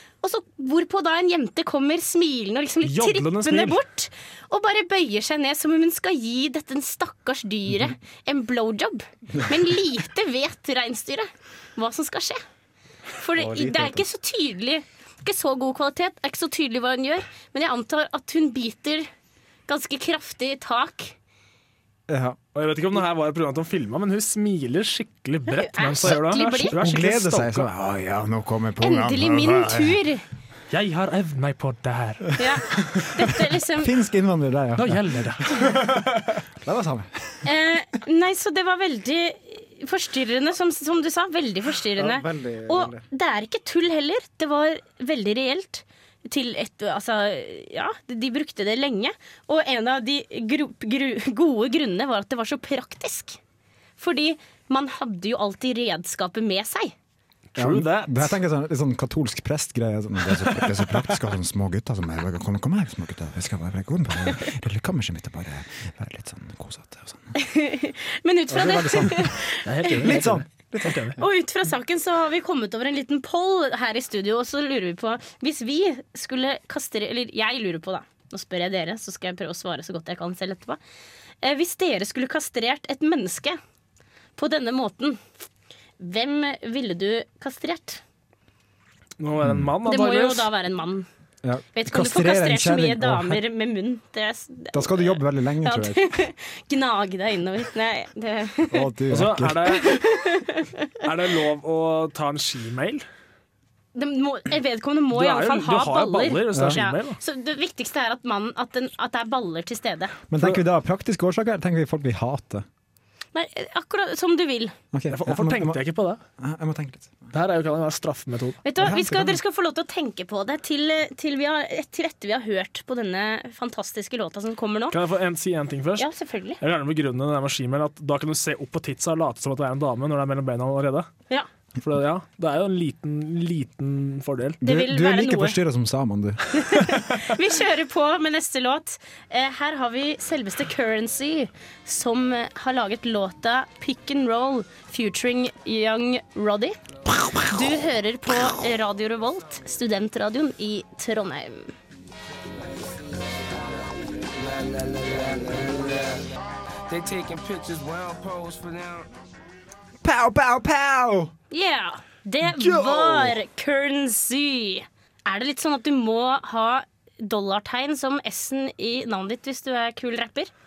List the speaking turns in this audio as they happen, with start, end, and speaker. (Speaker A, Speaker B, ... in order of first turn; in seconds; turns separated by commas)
Speaker A: 0.2-12.4, Speaker B: 2.8-3.8, Speaker A: 13.2-19.1, Speaker C: 13.4-14.0, Speaker A: 19.7-21.1, Speaker C: 22.1-22.4, Speaker B: 22.5-27.7, Speaker A: 25.5-26.7, Speaker C: 26.7-30.0, Speaker A: 28.8-30.2, Speaker B: 30.7-32.3, Speaker A: 32.4-33.9, Speaker C: 32.8-37.4, Speaker B: 34.8-36.3, Speaker A: 37.4-53.4, Speaker C: 42.0-43.0, Speaker A: 54.0-56.9, Speaker B: 57.5-58.4, Speaker C: 57.6-67.3, Speaker A: 67.3-70.2, Speaker C: 68.5-69.4, Speaker B: 69.7-71.2, Speaker C: 70.0-71.0, Speaker A: 71.2-80.8, Speaker A: 81.4-83.6, Speaker A: 84.3-85.2, Speaker A: 86.0-88.0, Speaker B: 89.2-90.5, Speaker A: 89.8-91.1, Speaker C: 91.4-93.4, Speaker A: 91.7-98.9, Speaker C: 94.7-96.1, Speaker C: 98.7-99.9, Speaker B: 99.1-100.0, Speaker A: 99.7-100.9, Speaker B: 101.0-103.0, Speaker A: 103.9-110.1, Speaker B: 105.1-107.2, Speaker C: 110.3-112.6, Speaker A: 113.3-114.7, Speaker C: 114.9-115.8, Speaker B: 115.1-116.2, Speaker C: 116.4-117.2, Speaker B: 117.3-118.6, Speaker A: 118.6-125.0, Speaker C: 118.8-119.4, Speaker B: 124.9-126.1, Speaker A: 126.0-126.6, Speaker B: 126.6-131.1, Speaker B: 131.8-134.6, Speaker C: 134.6-136.8, Speaker A: 134.6-135.6, Speaker A: 136.5-146.8, Speaker A: 147.3-151.7, Speaker D: 154.2-156.2, Speaker D: 156.9-159.1, Speaker C: 160.0-161.3, Speaker A: 161.5-170.5, Speaker B: 162.6-163.4